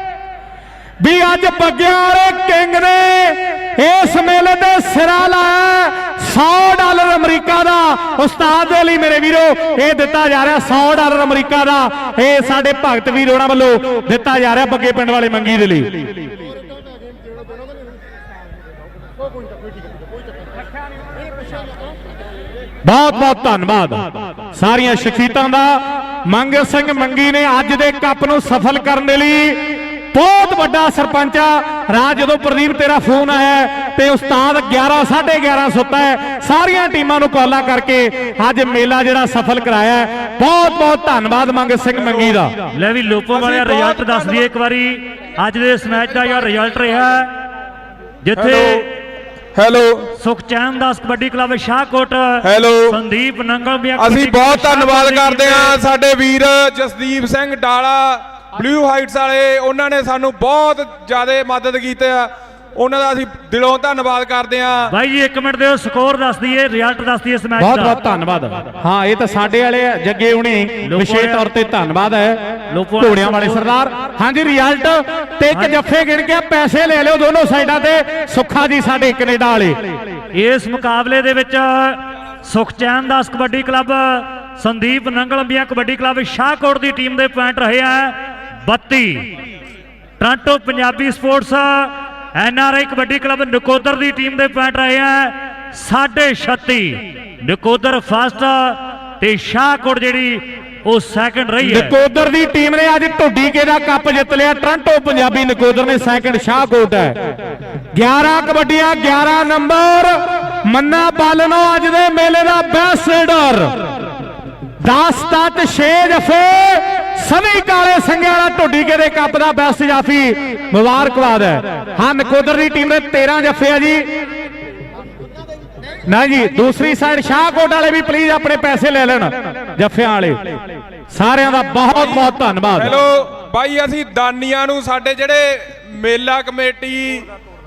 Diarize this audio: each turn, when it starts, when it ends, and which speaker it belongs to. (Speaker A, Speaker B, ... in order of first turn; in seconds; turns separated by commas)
Speaker A: 1.0-16.1, Speaker A: 22.9-42.6, Speaker B: 42.0-42.4, Speaker C: 42.7-47.3, Speaker B: 43.3-44.5, Speaker C: 48.2-48.9, Speaker B: 48.4-48.9, Speaker B: 49.5-50.1, Speaker C: 50.2-55.8, Speaker B: 52.4-53.0, Speaker B: 54.0-64.9, Speaker C: 64.9-68.0, Speaker A: 67.6-79.8, Speaker C: 70.8-71.4, Speaker C: 72.7-73.7, Speaker C: 75.5-75.8, Speaker C: 80.3-89.4, Speaker C: 90.2-101.9, Speaker A: 101.6-107.3, Speaker A: 107.9-113.8, Speaker A: 114.8-124.1, Speaker A: 126.1-130.6, Speaker A: 131.1-132.9, Speaker B: 131.9-137.3